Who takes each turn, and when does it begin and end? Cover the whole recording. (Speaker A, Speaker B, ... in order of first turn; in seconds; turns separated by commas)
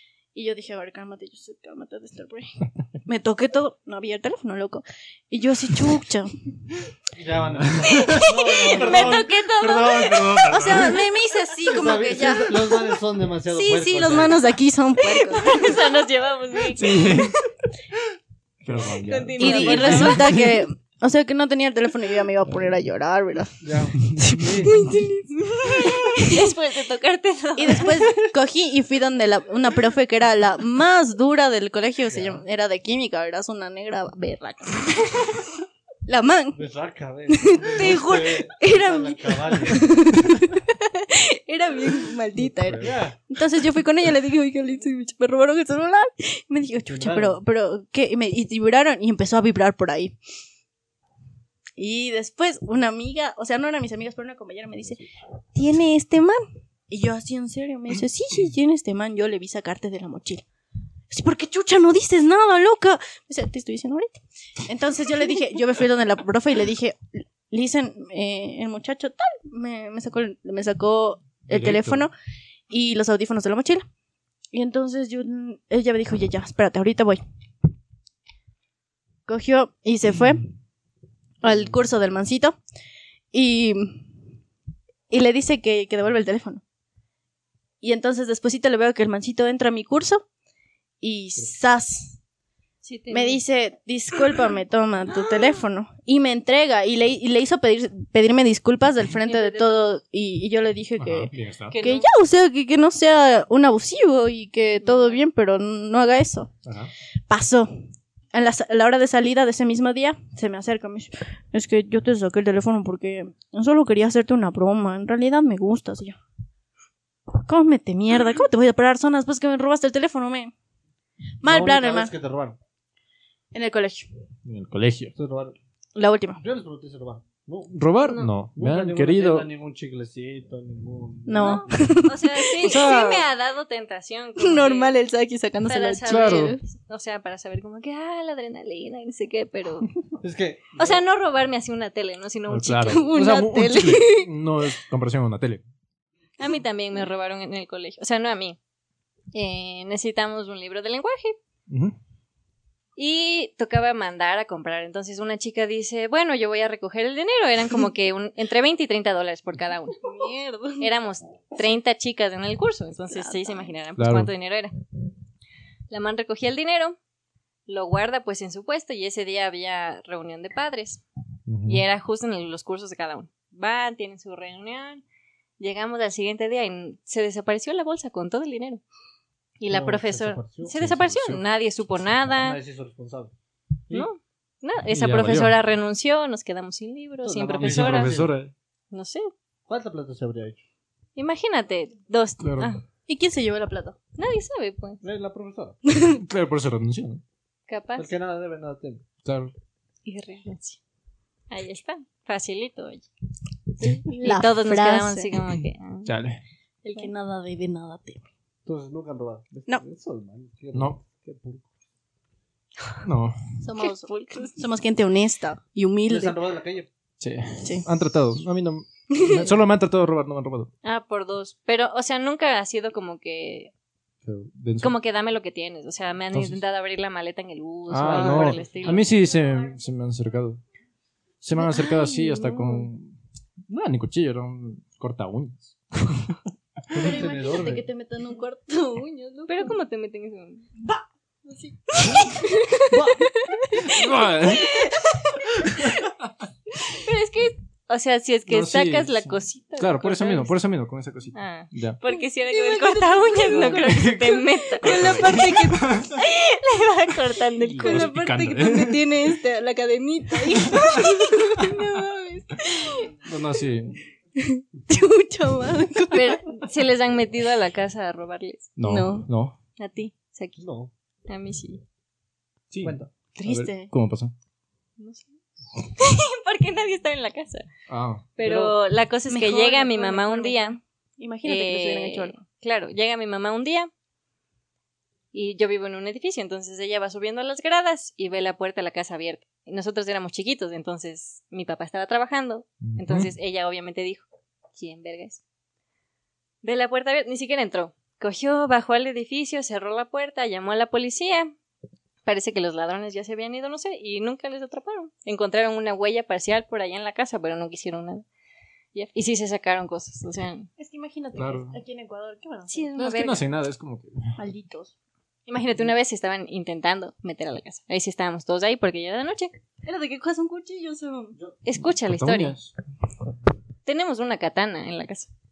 Speaker A: 0.3-6.3, Speaker B: 7.2-9.3, Speaker C: 7.5-11.0, Speaker D: 8.1-10.4, Speaker A: 10.4-15.8, Speaker B: 11.6-14.4, Speaker D: 15.1-17.1, Speaker C: 16.7-17.4, Speaker C: 18.6-20.6, Speaker D: 19.0-20.3, Speaker A: 19.4-23.6, Speaker B: 23.6-24.8, Speaker C: 24.1-24.7, Speaker A: 24.2-26.5, Speaker D: 25.6-28.1, Speaker A: 27.6-35.5, Speaker B: 32.1-32.4, Speaker A: 36.0-36.6, Speaker B: 36.5-40.0, Speaker A: 37.3-50.1, Speaker C: 42.4-42.9, Speaker B: 42.8-43.2, Speaker B: 46.9-47.4, Speaker A: 51.8-60.4, Speaker A: 61.1-72.1, Speaker C: 71.5-72.0, Speaker A: 72.7-73.9, Speaker A: 74.5-77.2, Speaker A: 79.2-80.5, Speaker A: 81.4-82.6, Speaker A: 83.3-84.1, Speaker A: 85.1-86.6, Speaker A: 87.8-90.2, Speaker A: 91.0-92.2, Speaker D: 92.8-93.4, Speaker A: 93.1-106.5, Speaker D: 99.2-99.8, Speaker C: 101.0-101.8, Speaker D: 101.7-102.0, Speaker D: 104.8-105.2, Speaker C: 106.6-106.9, Speaker A: 107.3-107.7, Speaker A: 108.3-116.2, Speaker A: 117.3-120.5, Speaker A: 121.4-122.1, Speaker B: 121.4-122.6, Speaker A: 123.5-124.1, Speaker C: 124.4-125.1, Speaker B: 125.2-125.5, Speaker A: 125.9-126.4, Speaker B: 126.4-127.7, Speaker C: 127.7-129.5, Speaker D: 128.0-128.3, Speaker B: 128.6-132.0, Speaker A: 131.2-132.8, Speaker D: 131.4-134.9, Speaker C: 132.6-133.3, Speaker A: 134.4-136.6, Speaker D: 135.6-139.9, Speaker C: 136.0-136.6, Speaker B: 140.2-141.0, Speaker D: 140.8-143.1, Speaker C: 142.5-145.6, Speaker A: 142.8-144.3, Speaker D: 146.4-148.6, Speaker D: 149.3-151.4, Speaker C: 151.7-151.9, Speaker D: 152.9-160.0, Speaker A: 160.0-160.9, Speaker D: 160.8-164.7, Speaker A: 163.1-163.7, Speaker C: 164.0-164.3, Speaker D: 165.9-166.9, Speaker D: 167.7-171.0, Speaker C: 171.5-171.8, Speaker D: 171.6-175.0, Speaker D: 175.6-178.8, Speaker D: 179.6-182.6, Speaker B: 179.7-180.8, Speaker C: 180.7-181.4, Speaker B: 182.4-183.3, Speaker D: 183.9-188.1, Speaker C: 184.9-185.5, Speaker B: 187.2-188.3, Speaker C: 187.6-188.5, Speaker D: 188.9-189.3, Speaker B: 189.7-190.6, Speaker D: 191.2-192.8, Speaker C: 192.4-192.7, Speaker A: 193.1-193.9, Speaker D: 194.2-195.0, Speaker B: 195.0-195.8, Speaker A: 195.9-196.2, Speaker C: 196.1-197.2, Speaker D: 197.7-198.1, Speaker B: 198.0-199.0, Speaker C: 199.2-199.5, Speaker D: 200.0-200.8, Speaker D: 201.5-203.1, Speaker A: 203.8-205.3, Speaker D: 203.8-206.1, Speaker C: 206.0-206.4, Speaker A: 206.8-208.2, Speaker B: 208.7-211.7, Speaker C: 213.0-213.3, Speaker A: 213.6-216.4, Speaker D: 213.8-214.6, Speaker B: 216.1-216.9, Speaker C: 217.2-220.7, Speaker A: 217.6-217.9, Speaker A: 219.1-219.5, Speaker D: 220.8-223.7, Speaker C: 224.2-224.9, Speaker D: 224.8-229.1, Speaker C: 226.3-226.6, Speaker C: 227.9-230.6, Speaker B: 228.0-228.8, Speaker C: 231.4-233.2, Speaker D: 231.7-232.9, Speaker C: 233.7-236.4, Speaker B: 236.9-237.8, Speaker A: 236.9-239.7, Speaker D: 239.5-240.7, Speaker A: 241.4-246.0, Speaker B: 242.9-243.3, Speaker C: 243.8-244.8, Speaker C: 245.6-246.0, Speaker D: 246.9-250.5, Speaker C: 248.5-252.0, Speaker D: 251.3-255.2, Speaker A: 252.5-256.1, Speaker C: 253.5-256.2, Speaker D: 256.1-258.2, Speaker C: 257.7-259.1, Speaker A: 257.8-263.1, Speaker C: 260.7-260.9, Speaker C: 263.2-263.9, Speaker A: 264.4-266.4, Speaker D: 266.1-268.7, Speaker C: 268.8-269.6, Speaker A: 268.9-269.3, Speaker D: 269.8-270.6, Speaker B: 270.6-270.9, Speaker D: 271.3-271.8, Speaker C: 272.7-274.3, Speaker B: 272.8-273.1, Speaker A: 273.3-273.9, Speaker D: 275.0-277.7, Speaker C: 277.9-278.6, Speaker D: 278.4-280.8, Speaker A: 279.3-282.3, Speaker D: 281.4-283.9, Speaker D: 285.3-295.4, Speaker C: 292.8-293.3, Speaker D: 296.6-301.5, Speaker D: 302.2-308.2, Speaker D: 308.9-310.7, Speaker A: 310.8-312.9, Speaker C: 311.4-311.8, Speaker D: 312.7-313.4, Speaker C: 313.0-314.3, Speaker A: 314.4-314.9, Speaker D: 315.5-319.5, Speaker A: 319.8-321.3, Speaker D: 321.6-322.5, Speaker C: 321.9-322.7, Speaker D: 323.9-325.3